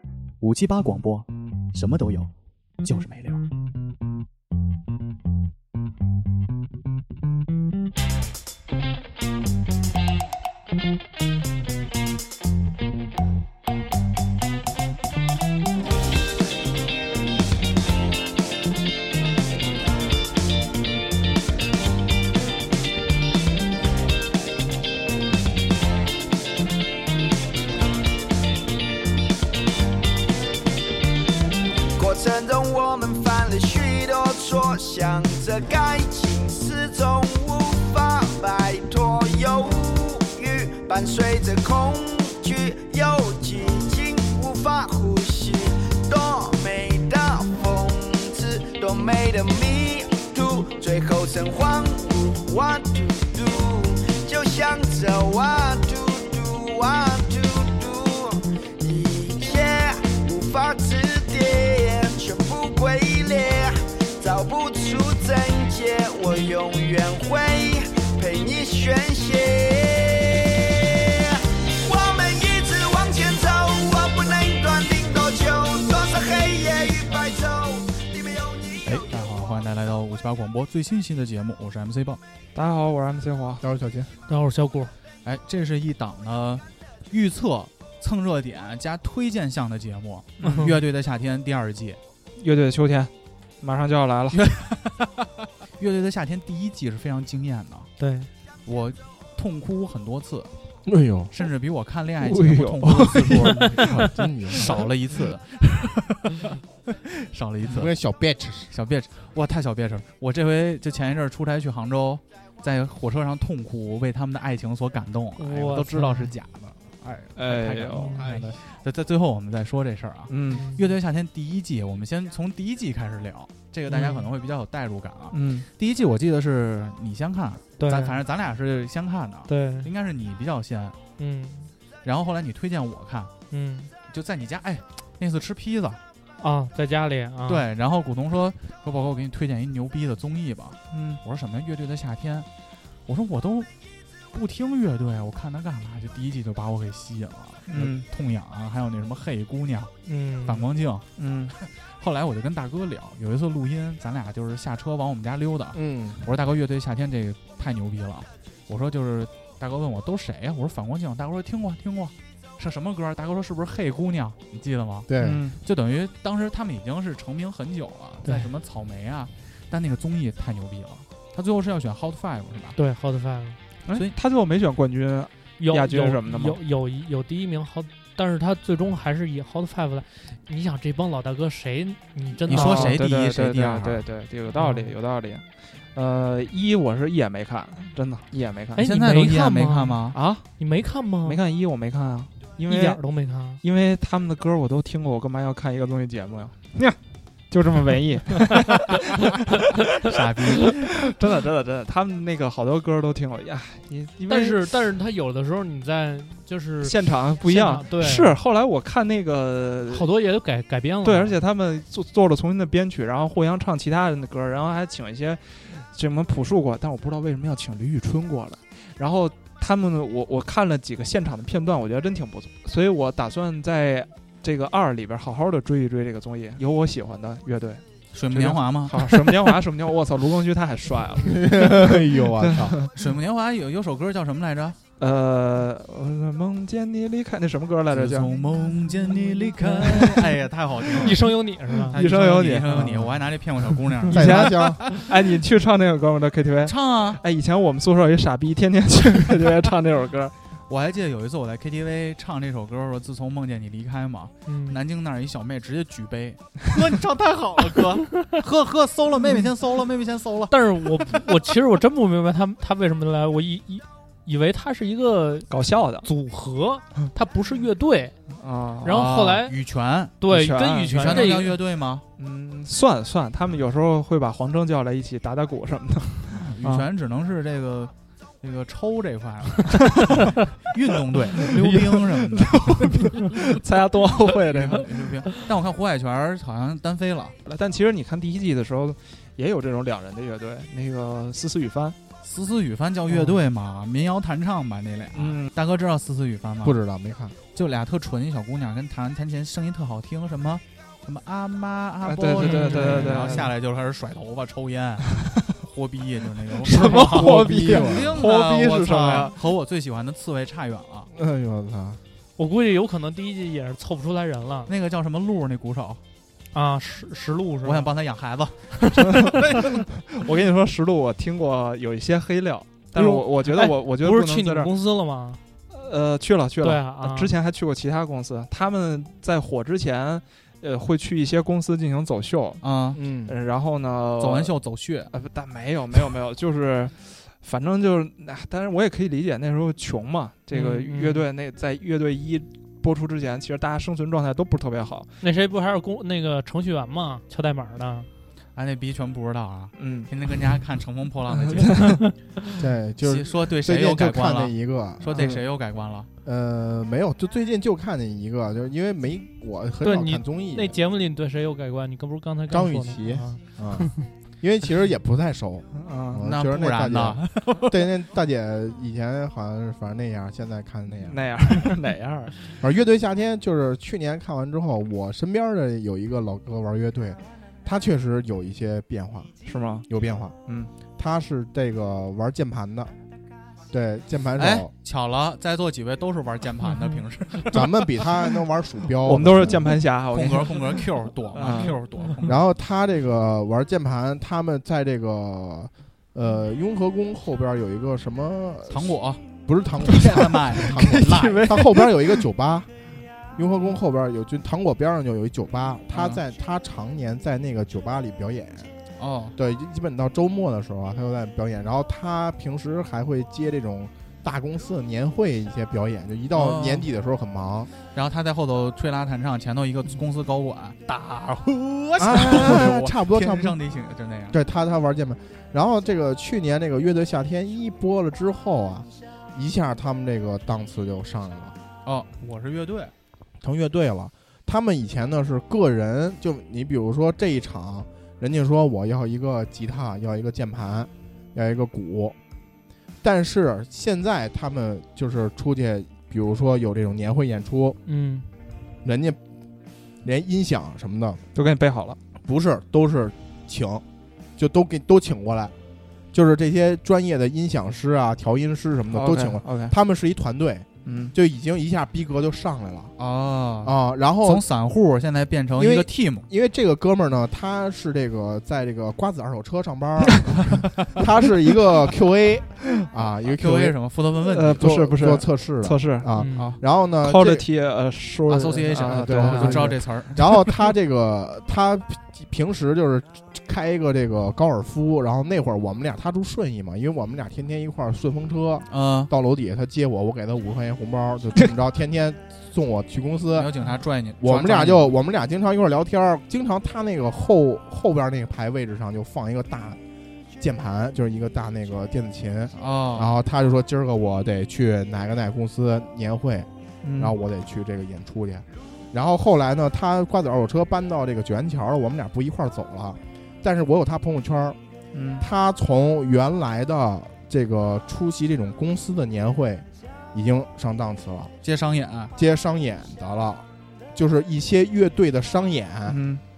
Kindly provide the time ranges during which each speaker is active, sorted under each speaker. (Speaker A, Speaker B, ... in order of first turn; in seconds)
Speaker A: 0.4-2.3, 2.8-3.4, 78.8-82.2, 85.2-92.0, 94.3-97.9, 98.7-100.5, 101.3-107.9, 108.7-130.9, 132.0-133.3, 134.1-136.0, 137.4-142.5, 143.1-143.7, 144.3-149.9, 150.4-151.0, 151.6-172.8, 182.5-184.0, 188.8-190.2, 200.0-200.8, 228.1-229.4, 232.9-234.8, 237.9-245.1, 246.7-247.2, 250.7-261.1, 268.8-272.0, 276.4-283.4, 284.4-287.4, 292.2-296.8, 297.5-311.1, 314.7-316.0, 317.6-319.8, 332.6-333.0, 334.2-335.1, 348.5-352.2, 353.0-356.1, 366.2-367.8, 384.4-388.1, 389.5-392.4, 398.7-399.2, 399.8-401.6, 405.9-406.2, 409.0-409.3, 416.3-416.9, 417.9-424.4, 431.8-432.9, 463.0-466.2, 473.3-474.8, 476.2-476.6, 478.3-480.3, 488.7-489.1, 493.3-494.9, 502.6-503.1, 521.4-522.1
Speaker B: 32.0-79.3
Speaker C: 82.5-83.6, 90.4-90.7, 92.4-94.4, 102.2-103.5, 117.3-118.3, 120.3-120.7, 125.3-125.7, 140.9-141.2, 147.7-148.1, 151.2-151.6, 165.2-165.6, 173.8-176.6, 182.5-188.8, 190.1-190.4, 191.2-193.0, 193.6-197.0, 197.5-198.8, 200.6-204.7, 206.8-210.1, 211.0-232.9, 235.0-238.3, 241.9-250.3, 265.5-266.1, 268.3-269.0, 270.3-271.6, 272.2-276.9, 281.5-285.4, 287.4-292.0, 295.1-295.5, 302.0-303.5, 305.1-305.5, 306.6-309.4, 320.1-324.7, 325.7-332.6, 333.2-334.6, 335.1-345.1, 349.8-350.1, 351.3-351.9, 355.1-355.4, 365.7-366.2, 371.1-372.3, 379.4-379.9, 380.4-380.7, 389.0-391.8, 400.8-402.1, 451.3-452.0, 458.9-459.7, 460.8-461.1, 474.2-476.2, 477.0-480.0, 506.8-507.1, 514.9-515.2, 525.9-526.2
Speaker D: 83.6-84.1, 100.9-101.3, 103.2-104.7, 107.7-108.7, 155.7-156.2, 165.1-165.4, 231.3-232.8, 244.1-244.9, 296.6-297.4, 306.7-308.2, 311.1-312.0, 332.9-333.3, 352.6-355.4, 356.2-360.8, 362.5-363.9, 364.4-371.2, 372.6-379.3, 379.9-380.3, 380.9-382.9, 383.7-384.7, 387.5-389.7, 392.2-402.7, 403.4-408.7, 409.4-417.7, 422.0-423.6, 424.3-431.6, 433.4-442.1, 443.0-447.8, 448.8-449.2, 450.0-451.2, 452.2-453.8, 454.4-455.5, 456.1-462.9, 463.6-464.4, 465.5-473.8, 474.6-477.4, 479.0-493.5, 494.2-499.8, 500.4-514.6, 515.2-521.3, 522.1-526.0
Speaker E: 84.3-84.9, 90.4-90.7, 98.0-98.3, 115.4-116.3, 118.0-118.3, 120.5-120.8, 123.9-124.2, 127.8-128.2, 129.5-129.9, 131.2-131.7, 133.5-133.9, 136.4-137.6, 150.1-150.7, 172.8-173.6, 175.6-183.0, 184.5-184.9, 188.7-191.4, 192.7-193.6, 204.3-208.3, 209.9-211.3, 239.6-240.2, 241.0-242.0, 254.4-254.8, 260.5-268.2, 268.8-269.6, 270.2-271.6, 302.4-303.2, 312.4-314.7, 316.5-317.9, 322.9-325.4, 326.6-327.3, 340.5-341.3, 345.2-348.1, 359.8-364.1, 447.9-448.3, 476.1-476.5